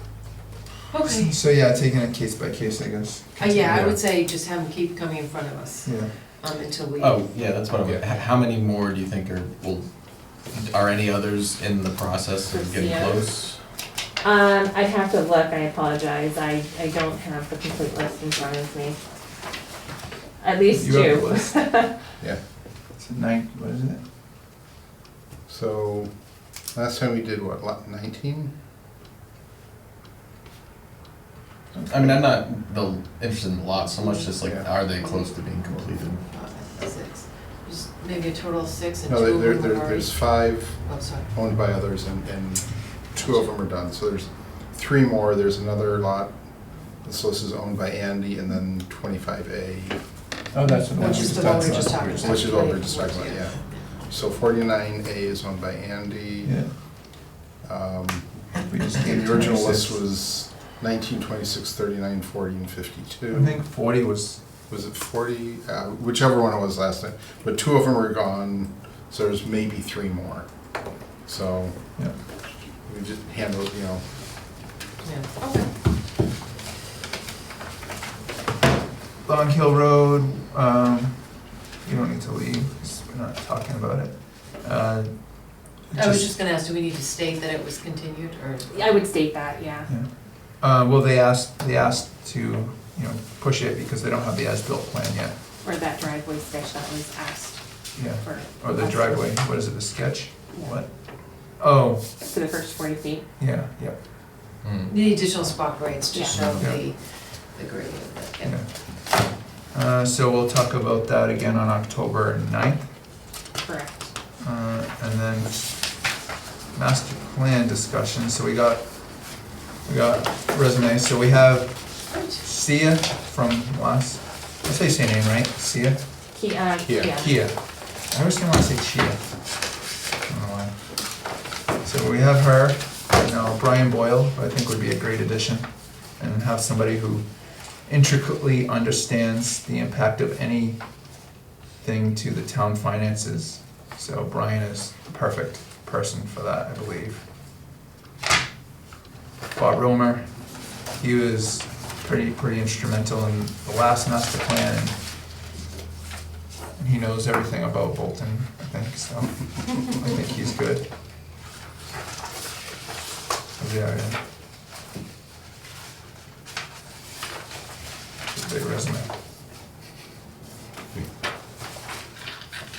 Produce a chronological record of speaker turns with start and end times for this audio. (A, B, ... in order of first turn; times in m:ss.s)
0:00.9-0:01.3 A
0:01.0-0:03.8 B
0:03.4-0:07.2 A
0:03.6-0:04.0 C
0:05.8-0:06.1 B
0:07.0-0:09.9 D
0:10.4-0:13.6 D
0:12.5-0:13.2 E
0:14.2-0:19.0 E
0:20.4-0:21.9 E
0:20.7-0:21.7 B
0:23.0-0:24.0 B
0:25.5-0:26.1 C
0:26.7-0:28.5 C
0:31.7-0:32.2 B
0:31.8-0:36.2 D
0:34.3-0:34.8 C
0:36.2-0:40.2 A
0:39.1-0:46.3 C
0:40.8-0:41.3 A
0:47.0-0:50.0 C
0:50.5-0:52.8 B
0:50.9-0:54.0 A
0:51.0-0:56.6 C
0:56.4-0:56.8 B
0:57.6-1:03.6 C
0:58.7-1:00.0 B
1:03.3-1:04.4 B
1:04.7-1:10.5 C
1:11.2-1:11.8 C
1:12.8-1:14.0 C
1:15.0-1:15.7 A
1:19.2-1:25.1 B
1:25.9-1:26.3 B
1:25.9-1:28.9 A
1:28.7-1:29.9 E
1:29.9-1:35.3 B
1:35.6-1:39.3 E
1:38.0-1:40.9 B
1:40.5-1:40.8 E
1:41.6-1:42.1 B
1:42.2-1:43.2 E
1:43.4-1:44.0 B
1:44.6-1:45.0 D
1:44.9-1:48.6 A
1:46.3-1:46.7 D
1:48.4-1:49.2 B
1:49.7-1:52.9 B
1:53.6-1:54.1 E
1:54.4-1:55.9 B
1:56.7-1:59.3 B
1:59.8-2:06.0 B
2:06.3-2:07.4 E
2:06.8-2:07.1 C
2:07.1-2:09.2 B
2:10.3-2:10.7 B
2:11.8-2:17.2 B
2:17.9-2:20.8 B
2:21.8-2:27.2 B
2:29.5-2:30.3 B
2:31.0-2:35.0 B
2:36.8-2:40.8 B
2:43.6-2:44.2 B
2:48.3-2:49.1 B